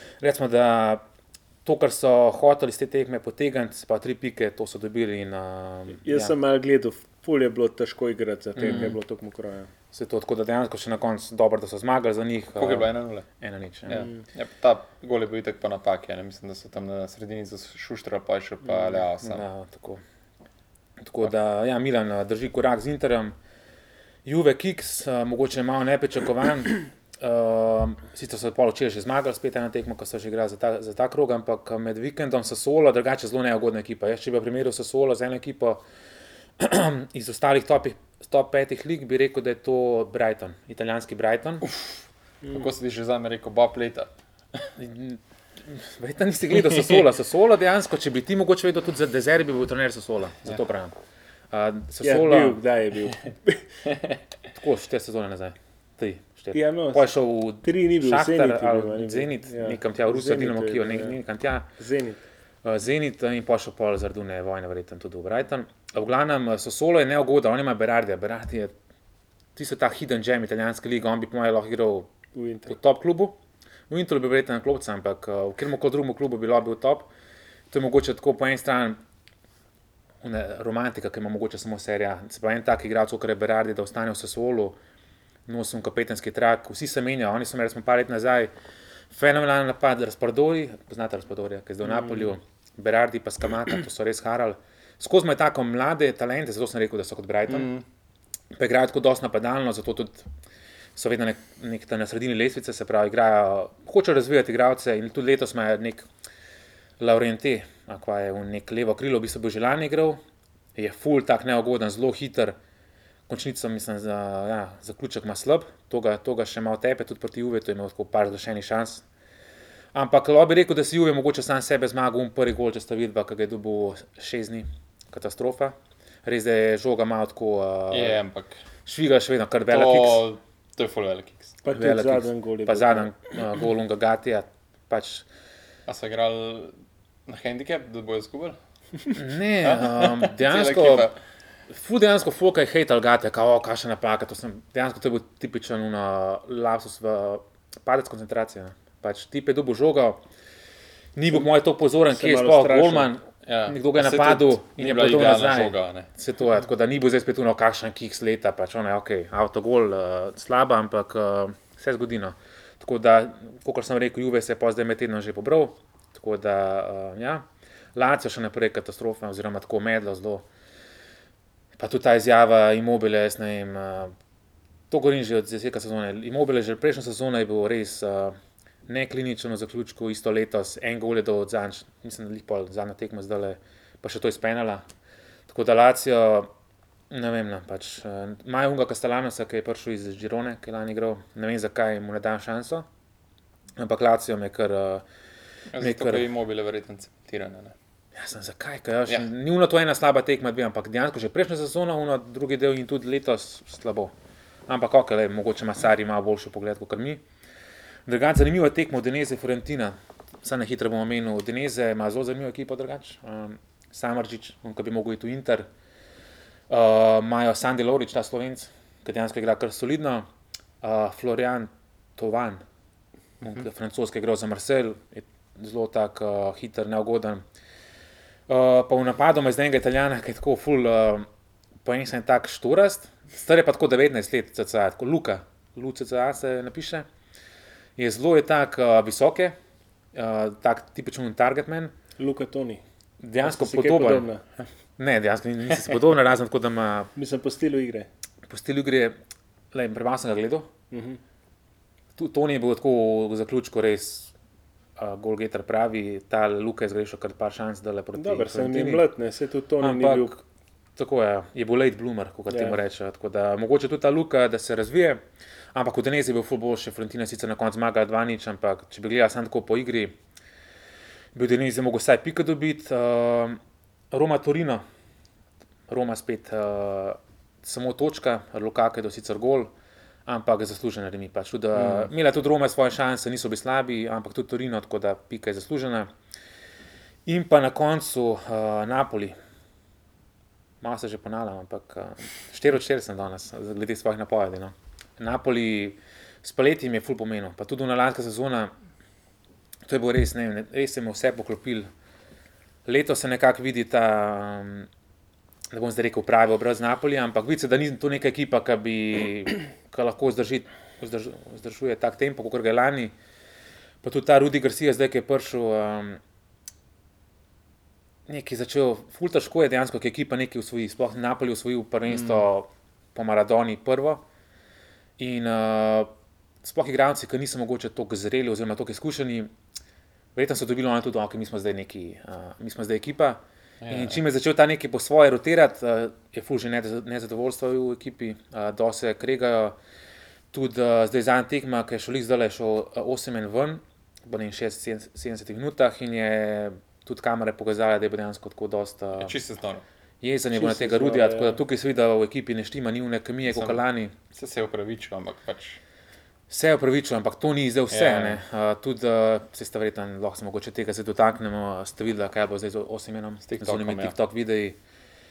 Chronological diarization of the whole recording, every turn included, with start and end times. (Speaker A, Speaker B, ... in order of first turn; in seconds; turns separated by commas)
Speaker A: 0.2-1.0, Speaker A: 1.6-6.3, Speaker B: 6.0-9.7, Speaker A: 8.6-8.9, Speaker C: 8.6-8.9, Speaker A: 9.9-14.1, Speaker C: 12.6-13.3, Speaker C: 13.9-19.5, Speaker A: 19.2-20.0, Speaker A: 21.0-23.4, Speaker A: 24.2-35.8, Speaker A: 36.6-41.6, Speaker C: 41.6-44.7, Speaker A: 44.8-51.0, Speaker C: 46.7-47.0, Speaker A: 51.5-52.6, Speaker B: 52.0-53.7, Speaker C: 53.9-54.2, Speaker A: 54.5-61.7, Speaker B: 56.5-57.1, Speaker B: 57.6-61.2, Speaker B: 61.8-62.2, Speaker A: 62.6-68.7, Speaker A: 69.5-72.1, Speaker B: 72.3-72.8, Speaker A: 72.7-73.4, Speaker A: 73.9-77.1, Speaker A: 77.7-79.0, Speaker A: 80.2-84.8, Speaker A: 85.5-88.5, Speaker A: 89.1-97.7, Speaker B: 92.0-92.3, Speaker C: 97.5-97.8, Speaker A: 98.5-100.3, Speaker A: 101.0-106.1, Speaker A: 107.0-110.2, Speaker A: 110.8-112.6, Speaker A: 113.3-119.0, Speaker A: 119.9-128.2, Speaker C: 127.9-128.6, Speaker A: 128.9-130.3, Speaker C: 129.7-131.6, Speaker B: 131.6-133.1, Speaker A: 131.8-135.3, Speaker C: 135.9-136.7, Speaker C: 137.3-138.6, Speaker A: 139.2-141.1, Speaker C: 139.2-141.2, Speaker A: 141.7-150.2, Speaker A: 151.2-170.5, Speaker B: 152.1-153.1, Speaker C: 153.4-156.1, Speaker A: 171.8-174.1, Speaker A: 174.9-184.8, Speaker A: 185.5-186.5, Speaker A: 187.1-192.9, Speaker A: 193.8-195.1, Speaker C: 195.7-197.8, Speaker A: 195.8-196.3, Speaker A: 198.1-204.1, Speaker A: 204.7-207.2, Speaker A: 208.1-215.7, Speaker A: 216.7-220.3, Speaker A: 220.8-222.6, Speaker A: 223.4-227.4, Speaker A: 228.5-231.3, Speaker A: 231.8-237.1, Speaker A: 238.0-239.6, Speaker A: 240.1-241.9, Speaker B: 242.2-242.8, Speaker A: 243.2-244.3, Speaker B: 243.4-244.4, Speaker A: 245.0-247.1, Speaker B: 247.2-248.1, Speaker A: 248.5-249.2, Speaker A: 249.7-250.7, Speaker B: 250.9-251.2, Speaker A: 252.2-254.3, Speaker A: 255.0-259.1, Speaker B: 258.1-260.4, Speaker A: 259.8-260.4, Speaker A: 261.0-265.2, Speaker B: 262.5-262.8, Speaker A: 265.7-270.1, Speaker A: 271.3-273.6, Speaker A: 274.1-274.8, Speaker A: 275.9-279.7, Speaker A: 280.3-286.1, Speaker C: 281.8-282.1, Speaker A: 287.3-289.4, Speaker A: 290.8-298.7, Speaker A: 299.9-301.9, Speaker A: 302.9-304.9, Speaker A: 305.7-313.1, Speaker A: 314.0-316.2, Speaker A: 318.3-324.2, Speaker C: 322.1-322.5, Speaker A: 325.2-326.1, Speaker A: 326.6-329.5, Speaker A: 330.4-339.8, Speaker C: 333.8-334.2, Speaker A: 340.5-349.4, Speaker C: 349.2-349.8, Speaker A: 350.2-354.1, Speaker B: 350.5-351.6, Speaker C: 353.5-353.8, Speaker C: 354.3-355.8, Speaker A: 356.5-364.8, Speaker C: 357.9-358.4, Speaker C: 363.5-364.1